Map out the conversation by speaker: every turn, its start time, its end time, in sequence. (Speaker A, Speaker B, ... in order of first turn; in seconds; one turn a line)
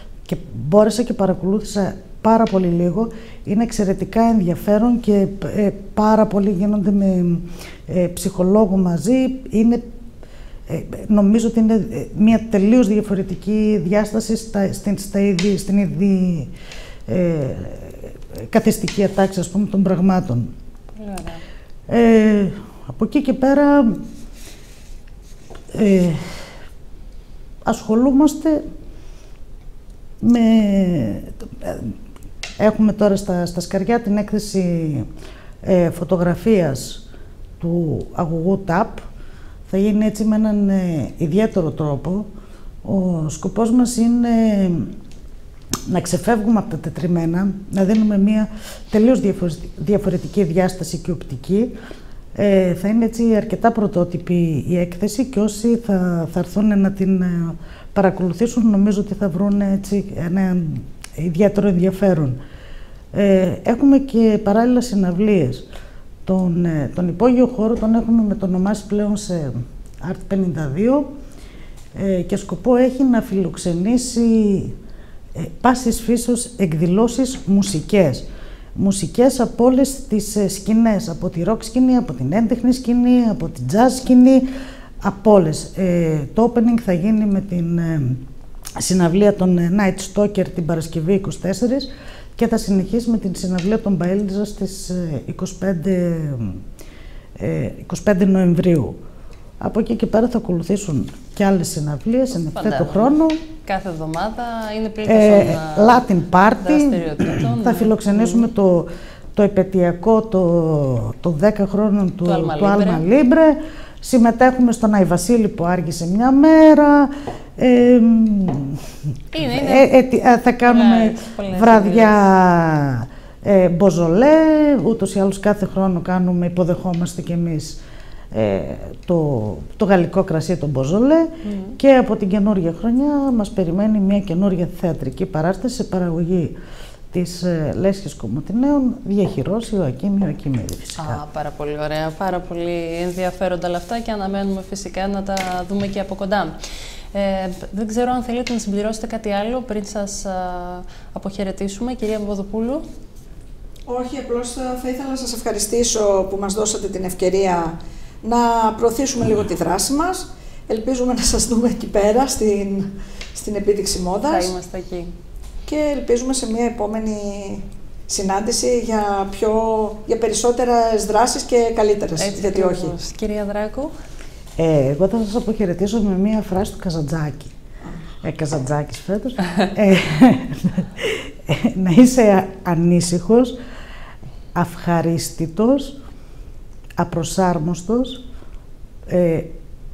Speaker A: 0.3-9.8
Speaker A: 10.7-16.5
Speaker A: 17.1-20.5
Speaker B: 20.9-21.4
Speaker A: 21.9-24.0
Speaker A: 25.7-26.4
Speaker A: 27.7-28.6
Speaker A: 30.2-31.9
Speaker A: 32.6-35.1
Speaker A: 35.6-37.0
Speaker A: 37.6-39.0
Speaker A: 39.7-42.3
Speaker A: 42.8-45.0
Speaker A: 45.9-51.7
Speaker A: 52.4-62.4
Speaker A: 63.1-65.7
Speaker A: 66.3-71.1
Speaker A: 72.0-74.8
Speaker A: 75.4-84.5
Speaker A: 85.0-88.2
Speaker A: 88.8-96.6
Speaker A: 97.4-99.0
Speaker A: 99.6-103.4
Speaker B: 102.5-108.5
Speaker A: 105.0-118.8
Speaker B: 112.2-113.0
Speaker B: 119.3-119.9
Speaker A: 119.4-127.8
Speaker B: 120.6-122.2
Speaker A: 128.3-136.5
Speaker B: 131.4-131.8
Speaker A: 137.1-141.2
Speaker B: 141.0-146.5
Speaker B: 147.1-152.8
Speaker C: 153.9-164.5
Speaker B: 164.2-165.1
Speaker C: 165.7-173.0
Speaker B: 172.2-173.9
Speaker A: 174.6-177.6
Speaker A: 178.2-183.6
Speaker A: 184.5-186.0
Speaker A: 187.0-188.2
Speaker A: 189.1-189.5